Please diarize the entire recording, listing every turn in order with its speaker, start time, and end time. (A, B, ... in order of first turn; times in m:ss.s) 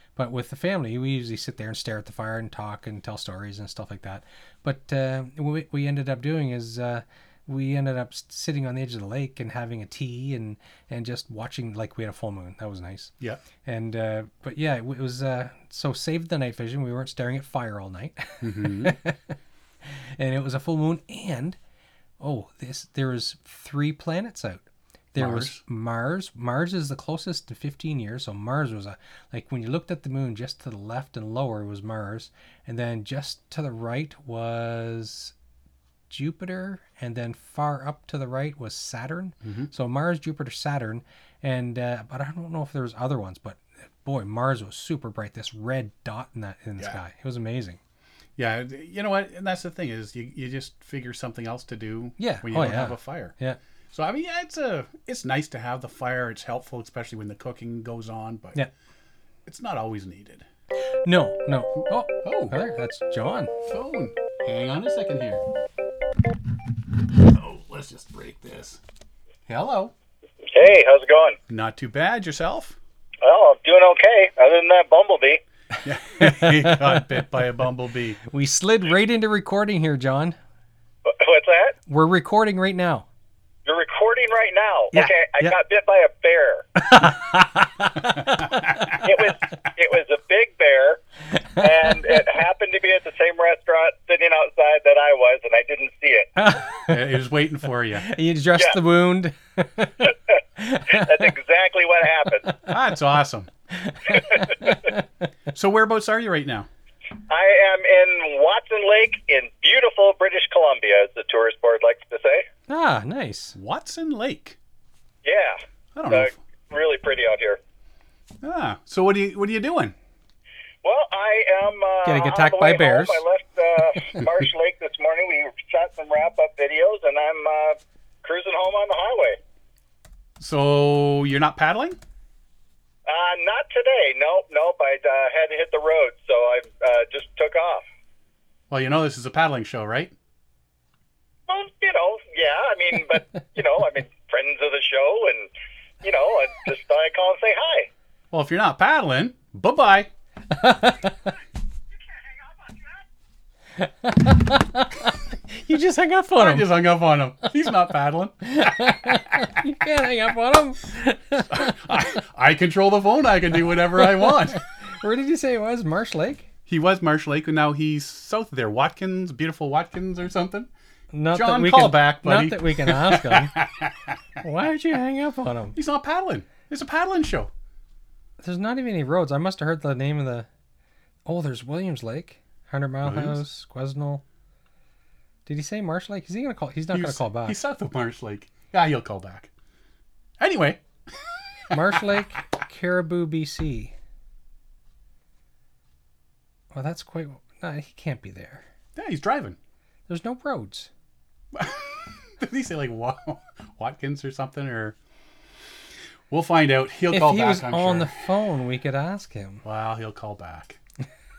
0:00.2-0:13.1 A
0:13.6-0:19.2 A
0:18.4-0:19.0 B
0:19.8-0:21.6 A
0:22.2-0:24.6 A
0:25.1-0:35.3 A
0:25.2-0:25.6 B
0:36.1-0:47.8 A
0:39.4-0:39.7 B
0:48.4-0:53.3 B
0:52.2-0:53.6 A
0:53.9-0:58.6 B
0:59.5-1:00.4 B
1:01.0-1:03.5 A
1:02.2-1:02.6 B
1:03.7-1:05.4 B
1:07.3-1:08.8 B
1:09.5-1:09.9 B
1:10.5-1:11.4 C
1:11.5-1:12.8 B
1:13.2-1:15.4 C
1:15.8-1:18.2 B
1:16.2-1:17.0 A
1:18.3-1:20.4 A
1:21.0-1:21.8 C
1:21.9-1:23.1 A
1:23.6-1:26.7 C
1:24.9-1:25.6 A
1:26.8-1:29.1 A
1:28.3-1:29.0 B
1:29.0-1:31.0 C
1:31.3-1:31.9 A
1:31.6-1:36.3 C
1:36.4-1:37.1 A
1:36.9-1:38.1 B
1:38.0-1:41.3 A
1:40.9-1:42.6 C
1:42.7-1:43.5 B
1:43.7-1:45.0 A
1:44.1-1:44.6 C
1:45.5-1:46.7 B
1:47.3-1:52.5 C
1:52.7-1:53.6 A
1:53.6-1:54.6 B
1:55.2-1:57.6 C
1:56.0-1:56.4 B
1:58.4-2:00.0 B
2:00.8-2:09.4 C
2:02.0-2:03.2 A
2:10.4-2:12.0 B
2:13.1-2:17.8 C
2:18.7-2:20.1 B
2:21.5-2:25.5 C
2:26.0-2:27.9 C
2:28.3-2:30.1 B
2:30.5-2:31.3 A
2:33.8-2:36.8 A
2:36.4-2:39.6 B
2:38.4-2:41.8 A
2:41.5-2:44.6 B
2:44.0-2:46.4 A
2:46.7-2:50.7 B
2:51.1-2:53.6 A
2:51.3-2:54.2 B
2:54.4-2:55.8 A
2:55.7-2:57.5 B
2:58.4-3:00.5 A
3:01.3-3:04.2 A
3:03.0-3:03.4 B
3:05.4-3:07.6 A
3:06.9-3:09.5 B
3:10.4-3:12.2 B
3:11.7-3:13.9 A
3:16.7-3:18.6 A
3:18.9-3:19.6 B
3:20.1-3:20.9 A
3:21.5-3:25.0 B
3:26.3-3:28.2 B
3:27.1-3:29.6 A
3:29.6-3:30.8 B